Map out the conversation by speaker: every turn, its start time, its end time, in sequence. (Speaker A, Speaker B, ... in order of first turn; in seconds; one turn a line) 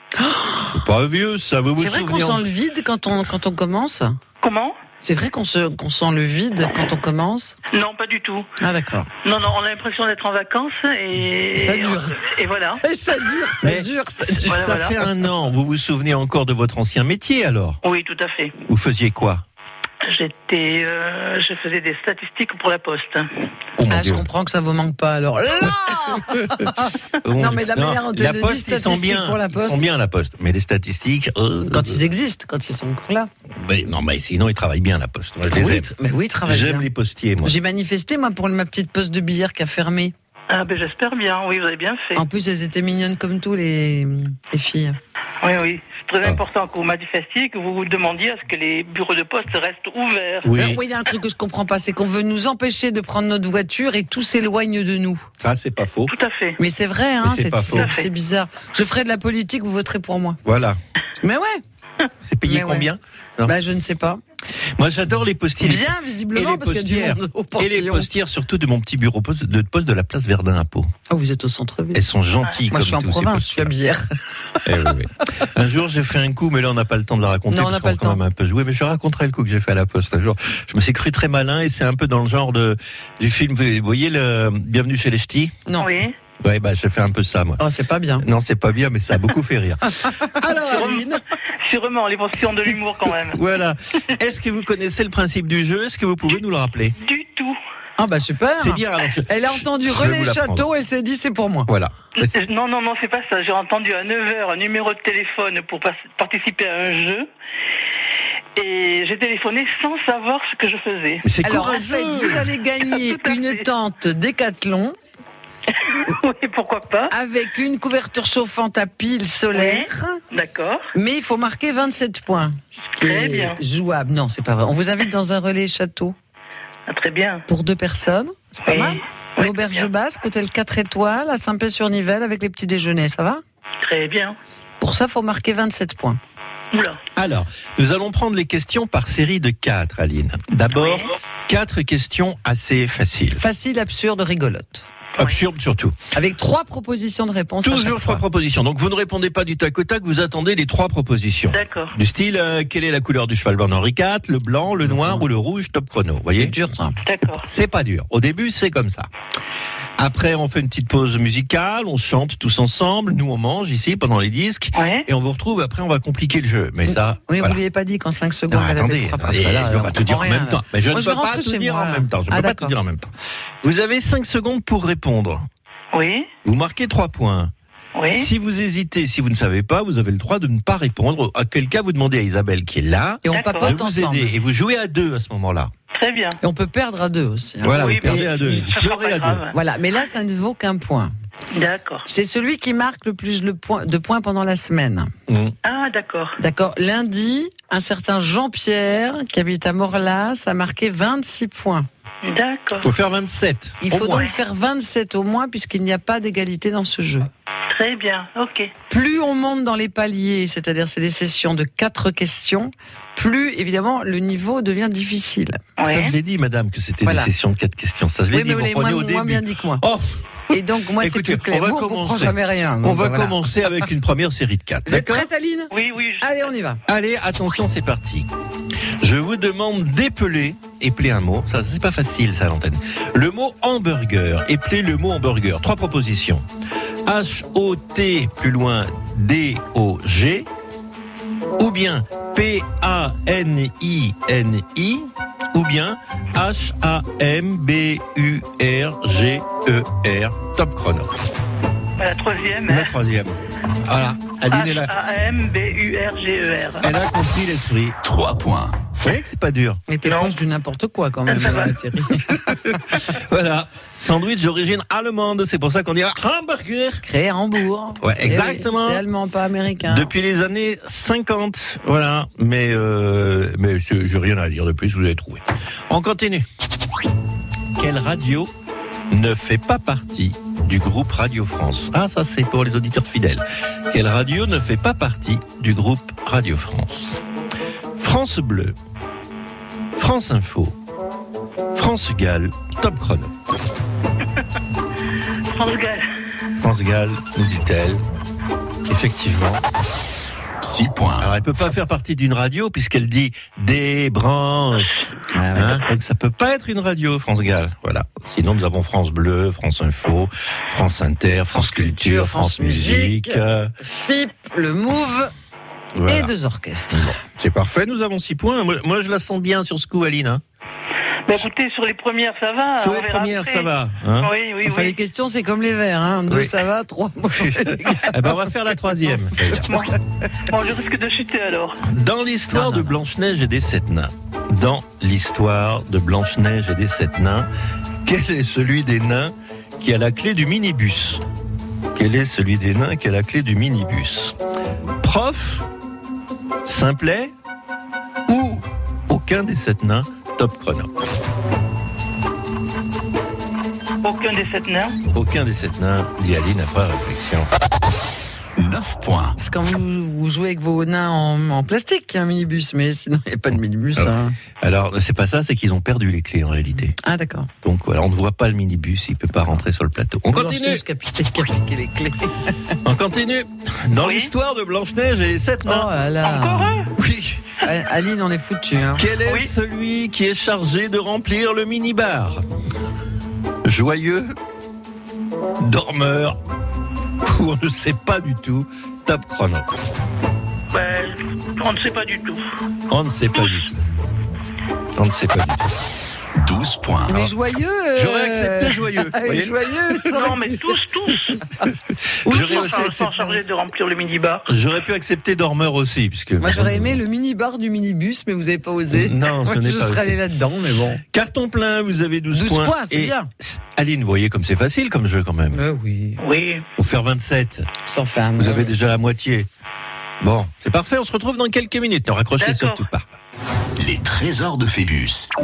Speaker A: 0.2-0.8
Speaker B: 0.7-2.4
Speaker A: 1.8-4.2
Speaker C: 4.4-4.8
Speaker A: 5.0-7.6
Speaker C: 7.7-8.5
Speaker A: 8.6-9.1
Speaker C: 9.2-12.8
Speaker A: 11.6-12.2
Speaker A: 12.8-14.6
Speaker B: 13.6-17.8
Speaker C: 14.5-15.0
Speaker C: 17.8-18.6
Speaker B: 18.7-19.4
Speaker C: 20.0-23.3
Speaker B: 23.8-24.2
Speaker A: 23.9-29.9
Speaker B: 27.2-32.0
Speaker A: 31.7-33.3
Speaker B: 33.5-35.9
Speaker A: 35.5-36.9
Speaker B: 36.5-37.5
Speaker A: 37.4-40.1
Speaker C: 40.5-42.2
Speaker A: 42.2-45.0
Speaker C: 45.4-50.5
Speaker B: 50.4-50.8
Speaker A: 50.5-55.3
Speaker B: 55.4-56.1
Speaker C: 56.1-56.6
Speaker A: 56.6-60.4
Speaker B: 57.2-57.9
Speaker C: 57.7-58.1
Speaker B: 60.5-60.8
Speaker A: 61.2-61.6
Speaker B: 62.2-63.5
Speaker A: 62.5-62.9
Speaker A: 63.5-64.2
Speaker B: 64.8-70.9
Speaker A: 65.6-68.1
Speaker A: 71.1-72.0
Speaker B: 71.9-73.7
Speaker A: 72.7-74.9
Speaker B: 74.6-85.5
Speaker A: 77.5-78.2
Speaker A: 85.7-86.0
Speaker C: 85.8-86.1
Speaker B: 86.4-87.6
Speaker A: 87.6-88.2
Speaker B: 88.2-91.2
Speaker C: 90.6-93.4
Speaker B: 93.3-97.0
Speaker C: 97.0-97.6
Speaker A: 98.0-101.7
Speaker B: 98.6-100.7
Speaker B: 101.7-102.3
Speaker C: 102.2-107.3
Speaker C: 108.6-111.2
Speaker B: 111.2-112.5
Speaker A: 111.4-115.0
Speaker C: 112.9-113.6
Speaker C: 115.9-117.1
Speaker A: 117.1-120.2
Speaker C: 119.5-120.9
Speaker A: 121.0-126.1
Speaker C: 123.0-123.6
Speaker C: 126.9-127.4
Speaker A: 127.5-133.4
Speaker C: 128.7-129.9
Speaker C: 133.8-134.4
Speaker A: 134.8-136.2
Speaker C: 136.7-137.0
Speaker B: 137.2-143.4
Speaker C: 140.8-141.1
Speaker A: 143.4-144.8
Speaker B: 145.2-146.0
Speaker A: 146.1-148.2
Speaker B: 147.6-156.6
Speaker C: 151.5-151.9
Speaker A: 154.8-155.2
Speaker A: 156.4-157.0
Speaker C: 157.1-157.5
Speaker B: 157.2-159.1
Speaker B: 160.0-167.6
Speaker C: 164.8-165.1
Speaker A: 166.9-172.7
Speaker B: 168.5-173.1
Speaker B: 173.6-175.5
Speaker C: 175.9-176.3
Speaker B: 176.4-177.5
Speaker C: 177.9-178.3
Speaker B: 178.1-185.7
Speaker A: 183.2-184.3
Speaker C: 183.3-183.8
Speaker C: 185.9-186.4
Speaker A: 186.4-188.7
Speaker B: 187.6-189.5
Speaker C: 187.7-189.6
Speaker A: 189.5-191.1
Speaker C: 191.5-192.1
Speaker A: 192.1-195.1
Speaker B: 195.3-195.6
Speaker C: 195.6-196.4
Speaker A: 196.4-201.9
Speaker C: 202.2-202.9
Speaker B: 202.8-204.3
Speaker A: 203.8-207.3
Speaker C: 207.7-208.7
Speaker A: 208.9-215.6
Speaker C: 215.8-216.1
Speaker B: 215.8-225.3
Speaker A: 217.1-217.3
Speaker A: 218.3-219.8
Speaker A: 220.5-223.5
Speaker A: 224.9-226.8
Speaker C: 225.7-226.3
Speaker B: 226.9-228.3
Speaker B: 229.0-236.4
Speaker B: 237.1-240.5
Speaker B: 241.6-251.1
Speaker C: 252.0-252.9
Speaker B: 252.7-254.9
Speaker C: 254.5-256.9
Speaker B: 256.8-258.0
Speaker D: 258.0-258.8
Speaker B: 259.0-259.8
Speaker A: 259.9-262.6
Speaker C: 260.1-260.4
Speaker C: 261.3-261.8
Speaker B: 262.5-267.1
Speaker A: 267.1-270.1
Speaker B: 268.0-269.0
Speaker B: 269.9-276.5
Speaker B: 277.8-278.5
Speaker B: 279.1-287.2
Speaker B: 288.0-288.8
Speaker B: 290.0-290.8
Speaker B: 291.8-293.3
Speaker C: 295.5-296.1
Speaker B: 296.6-298.0
Speaker B: 298.9-299.6
Speaker D: 300.6-301.3
Speaker B: 301.2-305.0
Speaker A: 305.3-305.8
Speaker B: 305.5-313.7
Speaker A: 311.5-315.3
Speaker B: 316.0-316.3
Speaker A: 316.1-317.1
Speaker B: 316.9-320.4
Speaker C: 321.3-323.7
Speaker B: 322.8-324.3
Speaker C: 324.2-324.9
Speaker A: 324.6-328.4
Speaker B: 326.3-326.6
Speaker B: 327.4-329.7
Speaker C: 329.7-329.9
Speaker C: 330.5-331.8
Speaker B: 331.9-337.5
Speaker A: 332.5-332.9
Speaker B: 338.1-341.2
Speaker B: 341.9-344.4
Speaker B: 345.0-345.7
Speaker B: 346.6-347.3
Speaker B: 348.3-350.9
Speaker C: 354.0-355.0
Speaker B: 355.1-357.5
Speaker D: 358.6-359.4
Speaker A: 359.4-364.3
Speaker B: 364.0-366.9
Speaker A: 366.9-367.5
Speaker B: 367.6-370.8
Speaker A: 370.3-372.5
Speaker B: 372.8-375.9
Speaker C: 374.0-374.3
Speaker A: 375.6-376.8
Speaker C: 376.2-376.9
Speaker B: 377.0-377.4
Speaker A: 377.6-379.1
Speaker B: 379.0-382.4
Speaker B: 383.6-384.3
Speaker B: 385.6-386.4
Speaker B: 387.2-389.7
Speaker C: 390.7-392.4
Speaker B: 392.9-393.8
Speaker B: 395.0-395.7
Speaker D: 396.4-397.3
Speaker A: 397.1-400.8
Speaker B: 397.9-400.1
Speaker C: 400.1-401.4
Speaker B: 402.2-403.2
Speaker A: 402.3-402.9
Speaker C: 402.3-404.5
Speaker B: 404.5-407.0
Speaker A: 406.4-411.0
Speaker B: 408.9-410.2
Speaker B: 411.1-415.6
Speaker A: 412.3-413.3
Speaker A: 415.5-416.2
Speaker C: 416.2-416.6
Speaker B: 416.8-417.7
Speaker A: 417.9-418.7
Speaker B: 418.4-419.5
Speaker B: 420.2-423.1
Speaker C: 422.4-422.9
Speaker D: 423.8-425.3